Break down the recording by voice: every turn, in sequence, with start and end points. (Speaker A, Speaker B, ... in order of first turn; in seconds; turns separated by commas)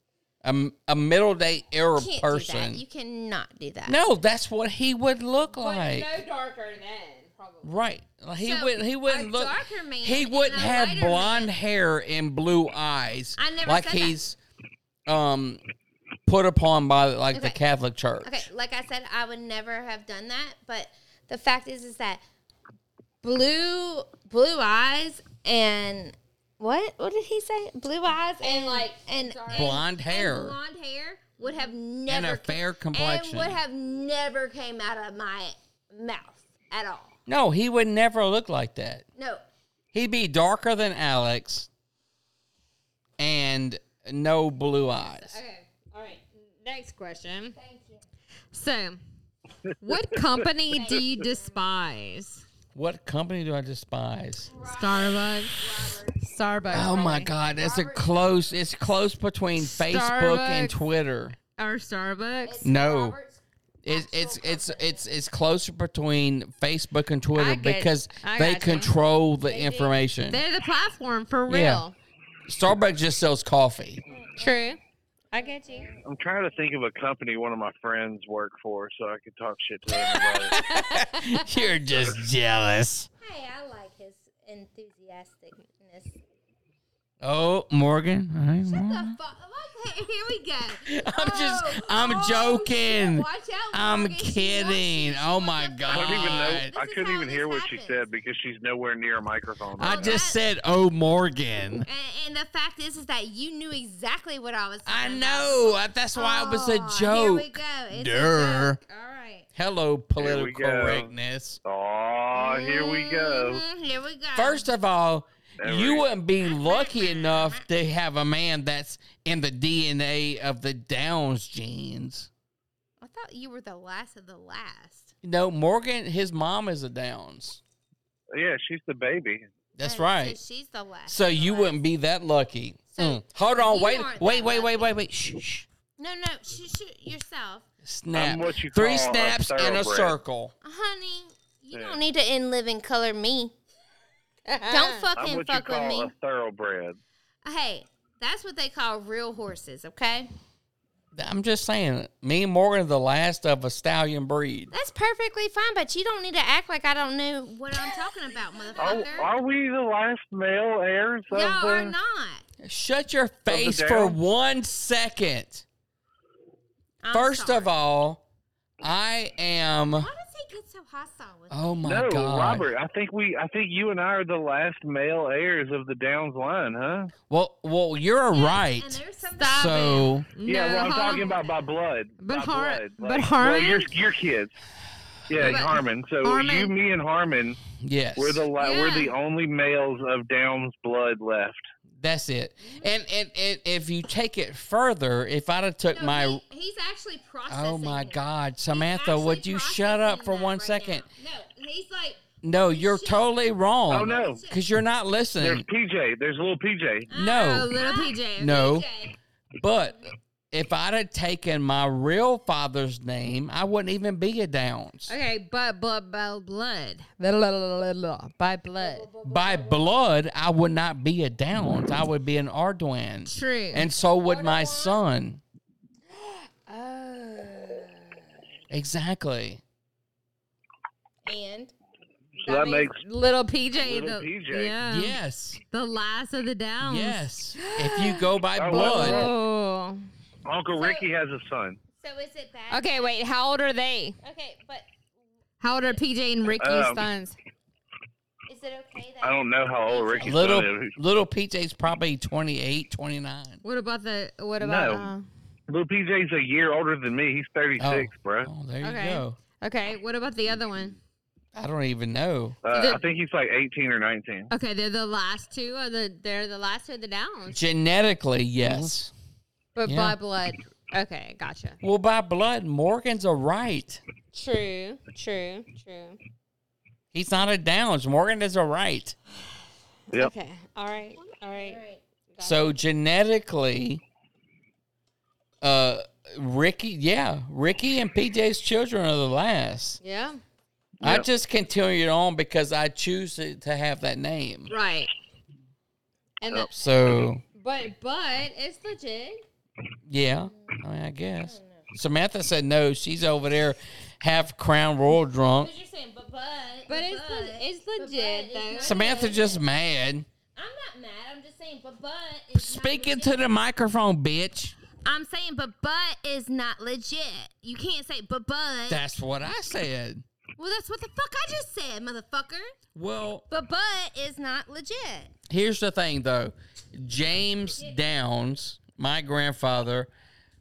Speaker A: 0.4-2.8, Speaker B: 1.9-4.0, Speaker A: 3.9-6.1, Speaker C: 5.5-7.7, Speaker A: 7.6-14.4, Speaker B: 8.4-11.5, Speaker B: 13.4-14.2, Speaker A: 15.1-15.6, Speaker A: 16.2-18.5, Speaker B: 17.3-17.6, Speaker B: 18.2-22.2, Speaker B: 23.2-37.2, Speaker C: 28.4-29.9, Speaker A: 29.5-30.6, Speaker C: 31.4-31.7, Speaker A: 32.1-33.6, Speaker A: 37.3-39.0, Speaker B: 39.1-39.4, Speaker A: 39.9-41.7, Speaker A: 43.2-45.4, Speaker C: 45.0-47.5, Speaker B: 47.5-48.0, Speaker C: 48.5-49.0, Speaker C: 49.8-52.4, Speaker B: 50.7-51.6, Speaker A: 52.7-54.5, Speaker B: 54.5-58.7, Speaker C: 54.6-55.7, Speaker C: 56.2-57.3, Speaker A: 56.7-61.4, Speaker C: 59.6-60.8, Speaker C: 61.6-62.6, Speaker B: 62.4-65.0, Speaker A: 62.6-63.1, Speaker A: 63.8-70.4, Speaker C: 67.3-68.9, Speaker B: 69.5-69.9, Speaker C: 70.3-71.9, Speaker A: 71.5-71.8, Speaker A: 72.5-74.0, Speaker B: 74.1-74.8, Speaker C: 74.4-74.8, Speaker C: 75.3-75.9, Speaker B: 75.3-76.0, Speaker D: 76.0-80.5, Speaker A: 79.9-83.1, Speaker C: 80.8-81.4, Speaker B: 81.5-82.1, Speaker B: 83.2-86.2, Speaker A: 87.2-89.2, Speaker B: 88.7-98.0, Speaker A: 90.9-96.7, Speaker D: 95.9-100.2, Speaker A: 99.8-101.9, Speaker B: 99.8-100.4, Speaker B: 101.8-109.5, Speaker A: 104.8-108.8, Speaker A: 109.5-111.6, Speaker D: 110.2-111.1, Speaker D: 111.6-113.6, Speaker B: 112.3-114.7, Speaker A: 114.3-122.3, Speaker D: 115.6-116.0, Speaker B: 116.4-117.7, Speaker B: 123.0-125.1, Speaker A: 125.2-127.6, Speaker D: 128.3-129.4, Speaker A: 129.8-130.4, Speaker B: 129.8-131.8, Speaker A: 131.1-135.7, Speaker B: 132.9-134.9, Speaker B: 136.0-137.6, Speaker A: 137.8-140.5, Speaker D: 138.1-140.2, Speaker B: 140.6-143.5, Speaker D: 141.7-142.0, Speaker C: 144.4-145.1, Speaker B: 144.7-146.1, Speaker D: 145.1-147.0, Speaker B: 147.4-150.3, Speaker A: 151.1-154.7, Speaker B: 154.7-159.3, Speaker D: 158.8-161.9, Speaker B: 161.3-162.4, Speaker A: 162.6-165.6, Speaker D: 163.5-164.2, Speaker B: 167.0-167.7, Speaker A: 167.1-168.2, Speaker A: 168.8-170.1, Speaker B: 169.9-171.8, Speaker A: 171.5-172.7, Speaker D: 171.8-177.1, Speaker A: 177.3-180.3, Speaker B: 178.3-180.3, Speaker C: 179.4-181.4, Speaker D: 180.4-184.5, Speaker B: 180.9-181.5, Speaker C: 182.2-183.9, Speaker D: 185.3-187.6, Speaker A: 185.3-185.7, Speaker C: 185.4-186.7, Speaker A: 187.8-188.5, Speaker D: 188.2-191.7, Speaker C: 188.6-189.1, Speaker A: 192.0-196.4, Speaker B: 195.9-204.7, Speaker A: 197.5-201.1, Speaker A: 202.4-205.7, Speaker D: 203.9-204.4, Speaker D: 205.4-207.1, Speaker B: 207.1-209.1, Speaker A: 207.1-207.8, Speaker C: 207.3-208.7, Speaker A: 208.4-208.8, Speaker A: 209.6-215.1, Speaker C: 215.1-219.1, Speaker B: 218.8-220.1, Speaker A: 219.2-225.4, Speaker C: 223.2-223.9, Speaker B: 224.2-225.0, Speaker C: 226.1-228.1, Speaker A: 228.7-229.6, Speaker B: 231.2-231.7, Speaker D: 232.3-233.0, Speaker B: 232.4-232.8, Speaker C: 232.5-235.2, Speaker D: 233.7-234.7, Speaker A: 234.8-235.6, Speaker C: 235.7-240.0, Speaker A: 236.8-239.3, Speaker D: 238.6-239.3, Speaker D: 240.4-241.8, Speaker B: 240.7-241.1, Speaker B: 242.0-243.2, Speaker C: 242.7-244.2, Speaker B: 244.2-244.9, Speaker C: 245.6-247.4, Speaker D: 246.5-247.0, Speaker B: 248.5-250.6, Speaker D: 249.2-250.9, Speaker A: 250.2-253.6, Speaker C: 253.6-255.2, Speaker D: 254.6-255.1, Speaker D: 255.7-258.5, Speaker A: 257.8-259.4, Speaker C: 258.8-261.0, Speaker A: 261.5-262.6, Speaker D: 262.6-264.5, Speaker C: 262.7-263.0, Speaker C: 264.5-267.6, Speaker A: 267.5-269.1, Speaker C: 269.8-271.8, Speaker A: 269.8-270.2, Speaker A: 271.8-274.0, Speaker C: 274.3-276.2, Speaker A: 277.1-279.1, Speaker C: 280.1-281.8, Speaker B: 281.5-282.0, Speaker C: 282.3-282.7, Speaker A: 282.4-284.0, Speaker A: 285.6-290.0, Speaker C: 290.0-290.4, Speaker D: 291.0-291.2, Speaker A: 291.0-294.7, Speaker C: 294.7-295.1, Speaker C: 296.4-296.7, Speaker A: 296.7-297.4, Speaker C: 297.6-299.4, Speaker A: 300.1-305.7, Speaker B: 300.5-300.8, Speaker B: 301.4-301.9, Speaker B: 305.6-309.6, Speaker C: 306.9-309.2, Speaker A: 308.8-310.3, Speaker B: 310.5-313.5, Speaker A: 312.5-314.8, Speaker B: 315.0-319.0, Speaker A: 318.9-320.2, Speaker B: 320.6-322.7, Speaker A: 322.9-323.4, Speaker B: 323.5-325.3, Speaker A: 325.5-330.1